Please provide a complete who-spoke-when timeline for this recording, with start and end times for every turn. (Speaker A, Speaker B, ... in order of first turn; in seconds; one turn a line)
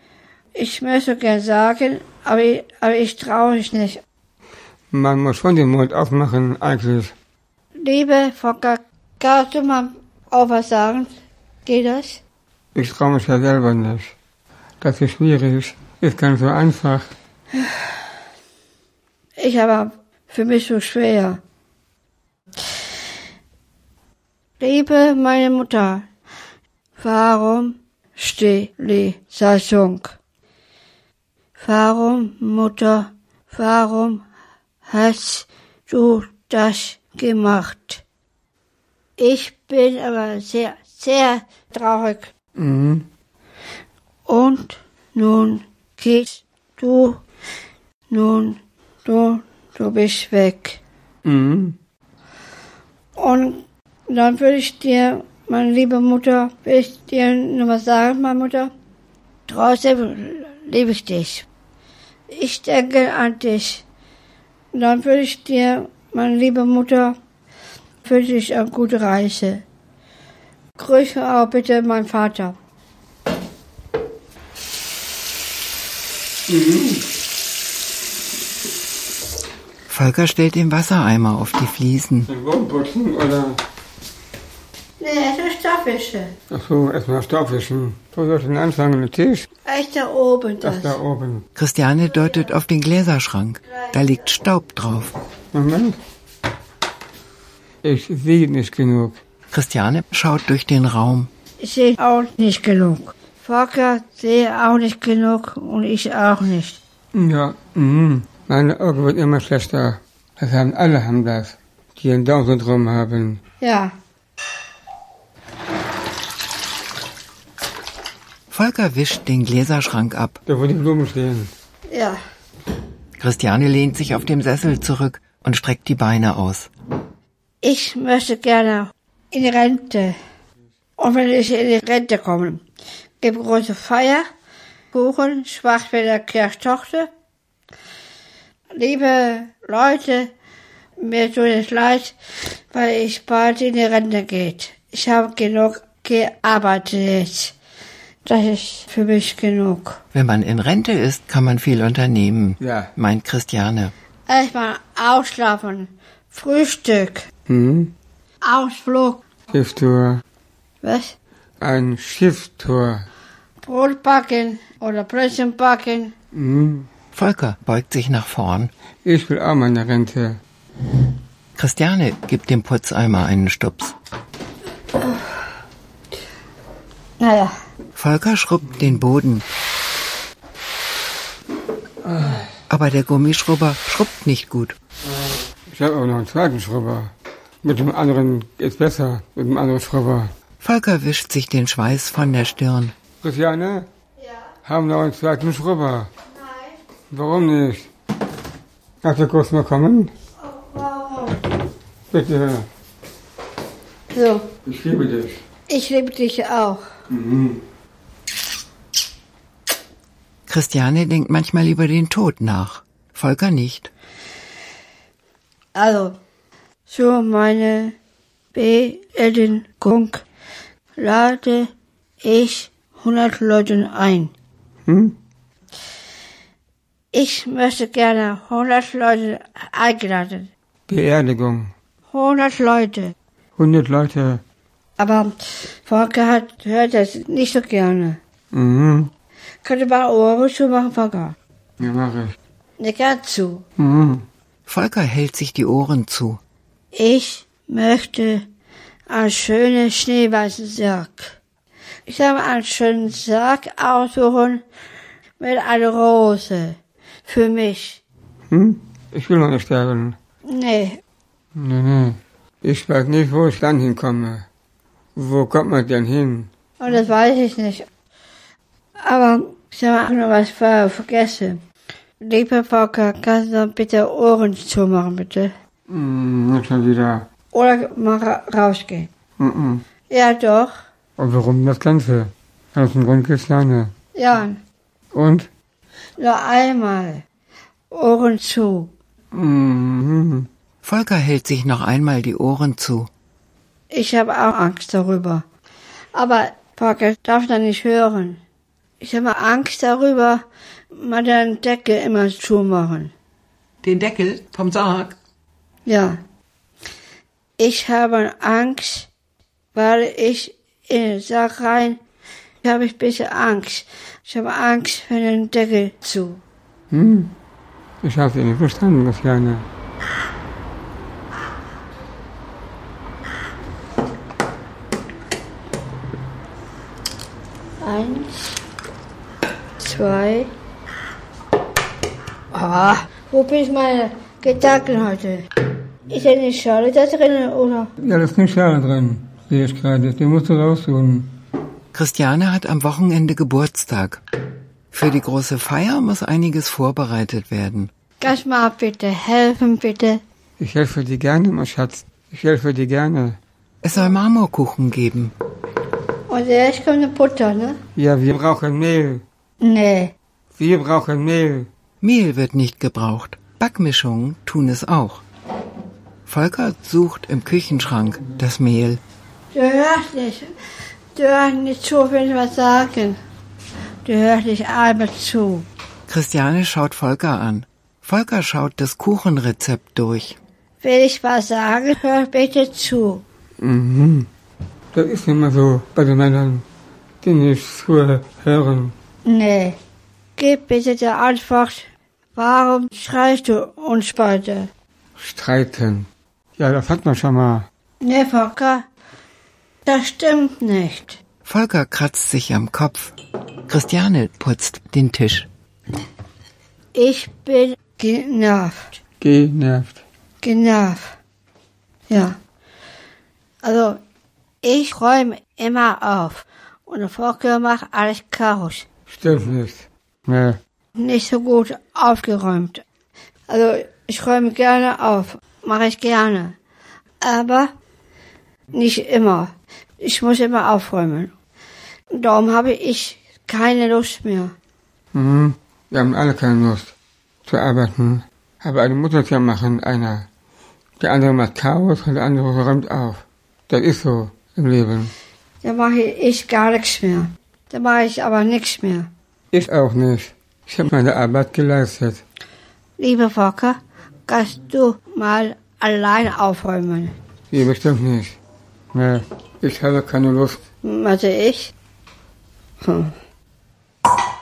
Speaker A: 0.6-4.0
Speaker B: 4.9-7.1
Speaker A: 7.8-11.1
Speaker A: 11.7-12.2
Speaker B: 12.8-14.1
Speaker B: 14.8-17.1
Speaker A: 19.4-21.4
Speaker A: 24.6-26.1
Speaker A: 27.0-30.2
Speaker A: 31.6-34.2
Speaker A: 34.9-38.0
Speaker A: 39.2-42.3
Speaker B: 42.6-43.1
Speaker A: 44.3-47.2
Speaker A: 48.1-50.8
Speaker B: 51.2-51.8
Speaker A: 53.2-58.7
Speaker A: 59.5-61.5
Speaker A: 62.3-63.8
Speaker A: 64.7-67.2
Speaker A: 68.0-69.6
Speaker A: 70.8-72.6
Speaker B: 76.5-77.0
Speaker C: 79.9-82.3
Speaker B: 82.3-83.6
Speaker A: 85.0-86.3
Speaker B: 86.5-89.5
Speaker A: 89.7-91.0
Speaker B: 90.6-91.4
Speaker C: 91.5-95.2
Speaker A: 93.7-94.2
Speaker B: 95.5-96.0
Speaker B: 97.8-99.2
Speaker C: 99.5-101.3
Speaker A: 101.6-106.8
Speaker B: 107.1-113.4
Speaker A: 113.6-113.9
Speaker C: 118.5-120.4
Speaker B: 120.5-121.5
Speaker A: 121.9-122.2
Speaker C: 123.2-126.7
Speaker A: 127.6-130.2
Speaker A: 131.0-132.6
Speaker A: 133.2-134.3
Speaker A: 134.9-137.1
Speaker A: 138.7-140.3
Speaker A: 141.0-142.2
Speaker A: 142.7-147.6
Speaker A: 148.2-150.0
Speaker C: 150.1-153.9
Speaker B: 152.6-152.9
Speaker A: 154.3-157.3
Speaker B: 157.5-157.9
Speaker A: 158.4-159.2
Speaker B: 159.5-160.2
Speaker A: 160.8-161.2
Speaker B: 161.6-163.1
Speaker A: 163.6-166.1
Speaker B: 166.3-166.9
Speaker C: 167.1-168.7
Speaker B: 169.1-170.4
Speaker C: 171.6-173.9
Speaker A: 175.0-175.3
Speaker A: 177.2-177.5
Speaker C: 178.0-179.5
Speaker B: 182.0-182.4
Speaker C: 182.7-184.8
Speaker B: 185.7-187.1
Speaker B: 187.6-190.3
Speaker C: 190.6-192.9
Speaker B: 193.2-193.9
Speaker A: 194.2-194.5
Speaker B: 194.7-196.1
Speaker A: 196.3-196.8
Speaker B: 197.1-197.9
Speaker B: 199.0-200.1
Speaker A: 200.4-201.4
Speaker B: 202.1-202.7
Speaker A: 204.1-204.5
Speaker B: 204.7-205.4
Speaker A: 205.7-206.9
Speaker B: 207.1-207.6
Speaker C: 210.5-213.9
Speaker A: 215.8-216.2
Speaker A: 216.9-217.9
Speaker A: 218.5-220.2
Speaker A: 221.0-224.3
Speaker B: 224.9-225.2
Speaker A: 227.1-230.5
Speaker B: 230.9-231.7
Speaker A: 232.1-233.1
Speaker B: 233.6-234.4
Speaker A: 235.0-238.2
Speaker B: 238.5-239.1
Speaker A: 239.6-241.4
Speaker B: 241.8-242.3
Speaker A: 242.8-243.6
Speaker B: 243.8-244.2
Speaker C: 244.7-246.4
Speaker A: 246.9-248.5
Speaker A: 249.1-251.4
Speaker A: 252.1-254.6
Speaker A: 255.4-258.0
Speaker B: 258.5-260.2
Speaker A: 260.5-261.0
Speaker B: 261.6-264.4
Speaker B: 265.2-266.5
Speaker A: 266.8-267.9
Speaker A: 269.0-271.6
Speaker A: 272.2-275.5
Speaker B: 275.9-277.2
Speaker A: 277.5-279.1
Speaker B: 279.4-279.8
Speaker A: 280.1-280.8
Speaker B: 281.2-283.9
Speaker A: 284.1-284.6
Speaker B: 285.1-285.5
Speaker A: 286.2-287.2
Speaker A: 287.9-288.9
Speaker B: 289.3-290.5
Speaker C: 290.8-293.1
Speaker A: 293.9-295.4
Speaker A: 296.1-298.4
Speaker A: 299.0-303.1
Speaker C: 303.8-305.1
Speaker A: 305.9-306.2
Speaker A: 307.6-309.1
Speaker A: 309.7-312.0
Speaker A: 312.6-316.4
Speaker B: 316.9-317.3
Speaker B: 318.0-319.7
Speaker A: 327.8-328.6
Speaker A: 329.8-330.5
Speaker A: 332.5-335.5
Speaker A: 336.1-337.9
Speaker B: 338.0-341.3
Speaker C: 341.9-344.2
Speaker C: 344.9-347.9
Speaker A: 348.2-350.2
Speaker B: 350.6-353.4
Speaker C: 353.8-355.3
Speaker A: 356.3-357.8
Speaker B: 358.0-359.2
Speaker A: 359.6-360.1
Speaker B: 360.6-361.7
Speaker C: 362.0-365.2
Speaker C: 366.3-369.0
Speaker A: 369.5-370.5
Speaker A: 371.1-373.2
Speaker A: 374.1-375.7
Speaker C: 376.1-380.4
Speaker A: 380.8-383.2
Speaker B: 383.6-384.3
Speaker B: 384.9-386.6
Speaker B: 387.2-388.9
Speaker A: 389.2-389.8
Speaker A: 390.4-394.7
Speaker B: 395.2-396.1
Speaker B: 396.6-397.7
Speaker A: 398.0-398.9
Speaker A: 399.9-401.2
Speaker C: 401.4-403.1
Speaker C: 403.7-405.5
Speaker A: 406.9-409.0
Speaker B: 409.2-410.0
Speaker A: 410.4-411.2
Speaker A: 412.1-412.4
Speaker A: 413.6-414.0
Speaker A: 414.6-418.9
Speaker B: 419.1-420.6
Speaker A: 421.0-422.8
Speaker A: 423.5-426.6
Speaker A: 427.2-427.7
Speaker A: 428.7-431.3
Speaker A: 432.1-434.6
Speaker B: 435.1-436.9
Speaker B: 437.5-440.3
Speaker B: 441.0-445.1
Speaker A: 445.6-449.1
Speaker B: 449.5-452.2
Speaker A: 453.0-457.1
Speaker B: 457.5-458.4
Speaker B: 458.9-460.6
Speaker A: 460.8-461.7
Speaker A: 462.8-463.1